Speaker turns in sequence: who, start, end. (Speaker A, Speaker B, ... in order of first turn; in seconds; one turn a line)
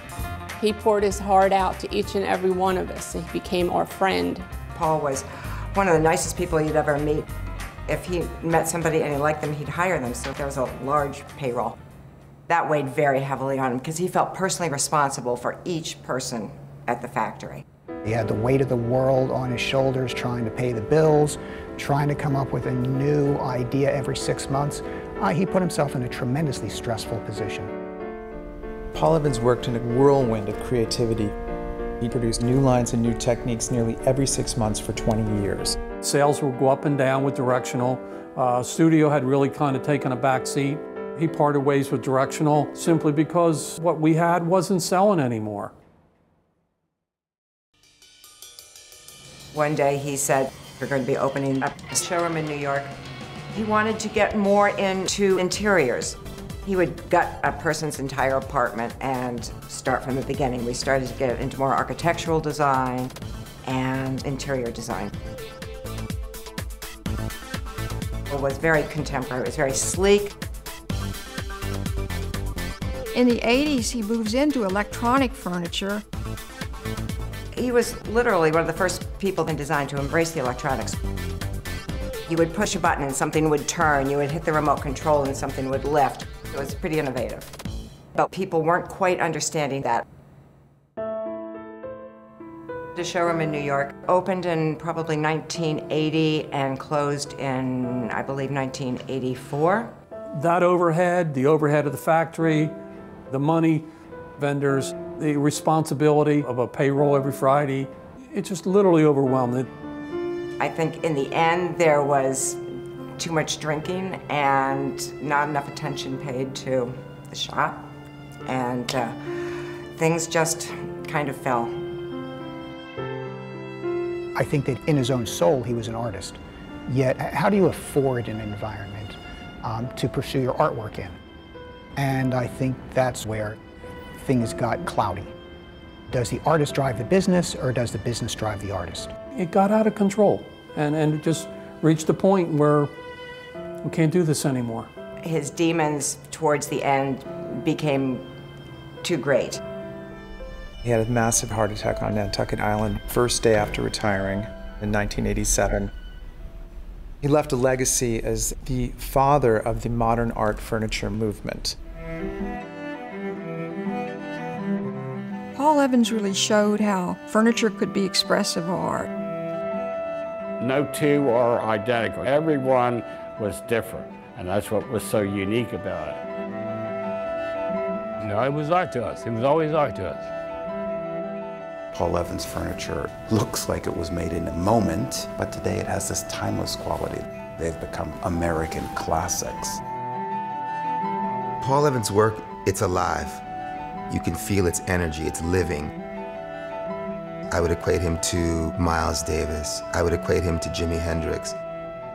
Speaker A: 0.6-4.5
Speaker B: 4.8-7.2
Speaker B: 7.9-11.8
Speaker B: 12.5-17.6
Speaker C: 18.0-27.7
Speaker D: 28.9-31.3
Speaker D: 32.0-35.8
Speaker E: 36.0-45.7
Speaker B: 49.5-52.9
Speaker B: 53.5-63.1
Speaker B: 63.6-65.1
Speaker B: 68.3-70.3
Speaker F: 73.1-76.0
Speaker B: 77.5-81.0
Speaker B: 82.3-87.5
Speaker B: 88.2-90.0
Speaker B: 93.0-99.9
Speaker E: 100.4-102.8
Speaker E: 103.3-103.9
Speaker E: 104.4-109.7
Speaker B: 110.6-112.6
Speaker B: 113.2-117.9
Speaker B: 118.5-119.2
Speaker B: 120.0-121.7
Speaker C: 124.4-131.2
Speaker C: 132.0-133.6
Speaker C: 134.2-135.3
Speaker C: 136.1-139.1
Speaker E: 139.4-142.9
Speaker E: 143.8-144.9
Speaker B: 145.2-148.2
Speaker B: 149.0-149.6
Speaker D: 150.8-155.9
Speaker D: 157.2-161.8
Speaker F: 165.6-169.1
Speaker G: 170.6-176.2
Speaker H: 178.2-180.3
Speaker I: 181.9-189.8
Speaker J: 191.6-193.4
Speaker J: 194.1-195.9
Speaker J: 197.5-201.6